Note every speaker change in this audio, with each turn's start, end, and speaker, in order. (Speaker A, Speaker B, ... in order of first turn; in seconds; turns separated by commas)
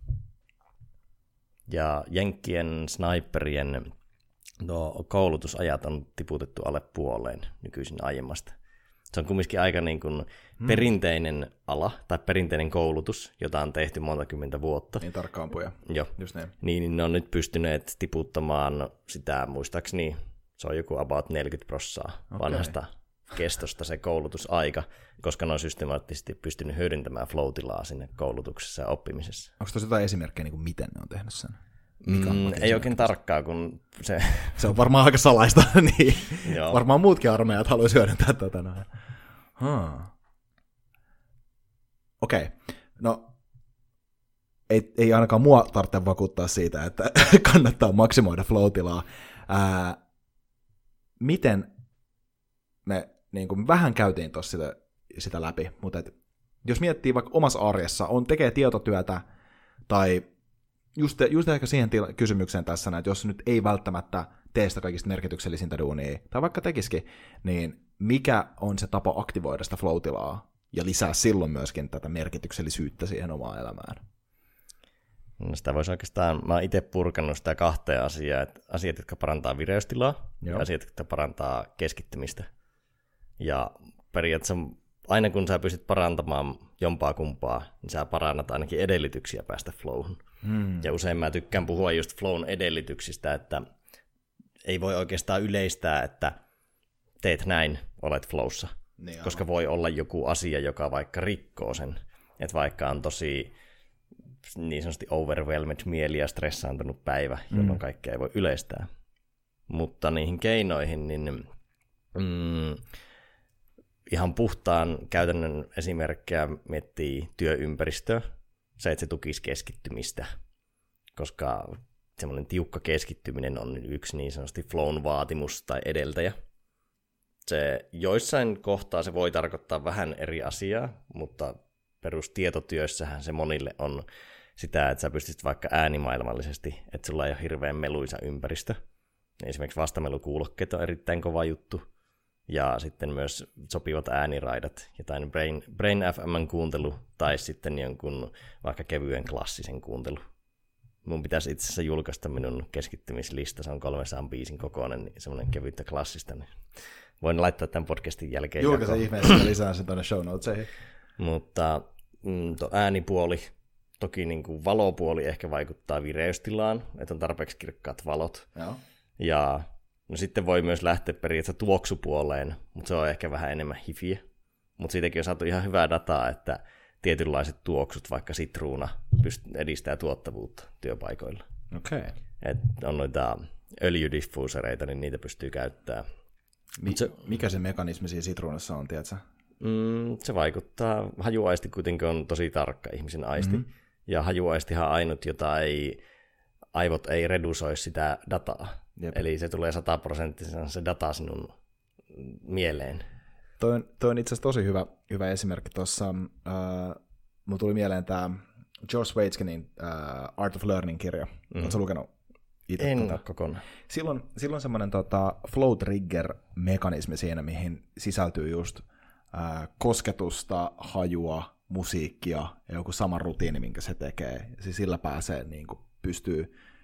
Speaker A: 1.7-3.9, Speaker A: 4.6-8.5, Speaker A: 9.1-15.0, Speaker B: 10.6-10.9, Speaker B: 15.0-16.5, Speaker A: 15.8-29.5, Speaker B: 22.3-22.7, Speaker B: 29.6-33.1, Speaker A: 32.0-34.7, Speaker B: 34.6-38.9, Speaker A: 36.4-36.8, Speaker B: 39.6-40.1, Speaker B: 42.2-43.3, Speaker B: 44.7-50.0, Speaker B: 51.2-51.7, Speaker B: 52.8-59.2, Speaker B: 59.9-60.3, Speaker B: 60.9-74.0, Speaker A: 75.4-82.5, Speaker A: 83.4-90.2, Speaker B: 90.4-90.9, Speaker A: 90.8-93.6, Speaker A: 94.6-96.3, Speaker A: 97.2-103.5, Speaker B: 99.0-99.4, Speaker A: 104.5-108.9, Speaker B: 107.5-107.8, Speaker A: 109.7-111.5, Speaker A: 112.1-112.8, Speaker A: 114.1-118.2, Speaker A: 118.8-120.3, Speaker A: 121.2-126.3, Speaker A: 127.5-134.0, Speaker A: 134.6-138.8, Speaker A: 139.4-141.8, Speaker A: 142.5-150.2, Speaker A: 151.0-156.6, Speaker A: 157.2-159.4, Speaker B: 158.6-160.7, Speaker A: 161.2-168.5, Speaker A: 169.2-174.2, Speaker A: 174.8-181.4, Speaker B: 181.7-182.1, Speaker A: 182.4-186.1, Speaker B: 186.8-189.2, Speaker A: 189.6-196.0, Speaker A: 196.7-201.5, Speaker A: 202.1-203.0, Speaker B: 203.6-212.1, Speaker A: 211.5-211.8, Speaker B: 212.7-213.2, Speaker A: 212.8-213.7, Speaker B: 213.9-226.5